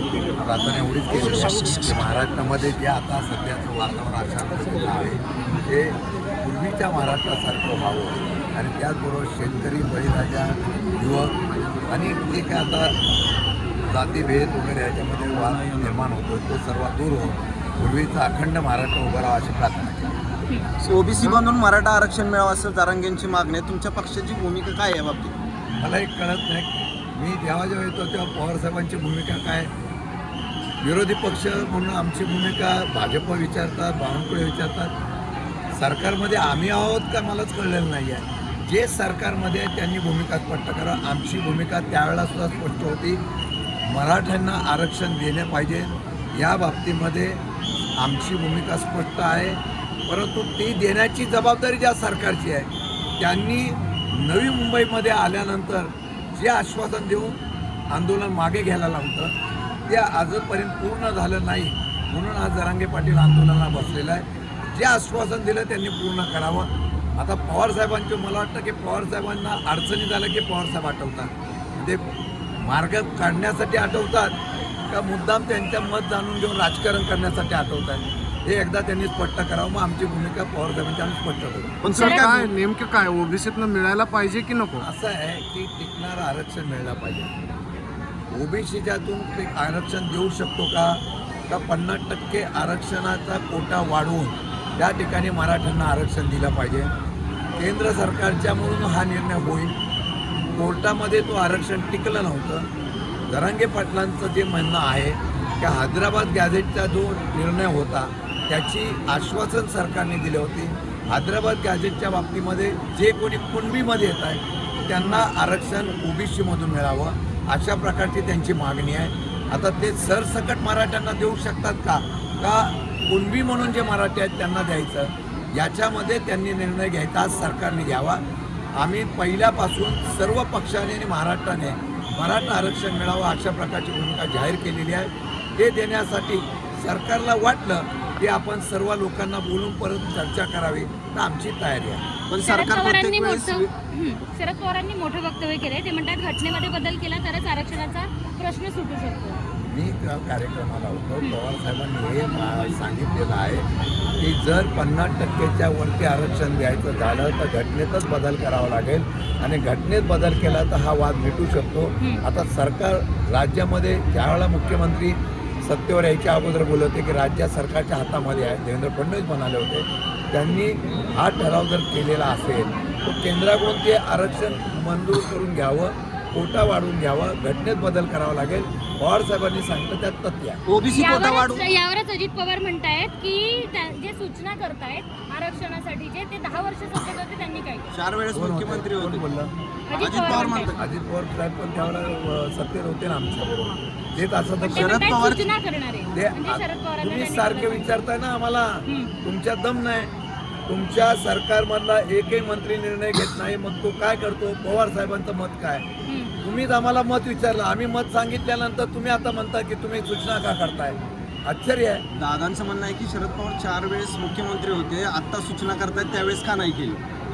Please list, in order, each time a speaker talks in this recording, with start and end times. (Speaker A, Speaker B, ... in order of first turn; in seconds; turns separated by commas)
Speaker A: 0.4-13.0, Speaker A: 13.9-20.2, Speaker B: 20.8-25.4, Speaker A: 25.8-29.7, Speaker A: 30.8-34.9, Speaker A: 35.8-43.2, Speaker A: 43.9-47.4, Speaker A: 48.0-57.4, Speaker A: 57.9-59.3, Speaker A: 59.9-72.1, Speaker A: 72.6-81.8, Speaker B: 81.8-82.5, Speaker C: 81.9-84.9, Speaker D: 82.0-82.3, Speaker A: 84.8-87.3, Speaker A: 88.3-96.9, Speaker A: 97.6-99.7, Speaker A: 100.6-102.7, Speaker A: 103.3-128.2, Speaker A: 128.8-142.0, Speaker B: 142.3-143.7, Speaker D: 142.4-149.4, Speaker A: 149.7-153.7, Speaker A: 154.2-180.6, Speaker B: 180.7-181.7, Speaker D: 180.9-187.9, Speaker B: 187.9-189.2, Speaker A: 188.3-189.5, Speaker D: 189.9-190.7, Speaker B: 189.9-190.8, Speaker A: 190.3-195.1, Speaker D: 194.6-198.1, Speaker B: 194.7-195.5, Speaker A: 196.1-200.1, Speaker D: 198.9-199.1, Speaker A: 200.7-205.8, Speaker D: 206.1-206.4, Speaker A: 206.4-212.0, Speaker B: 212.1-217.0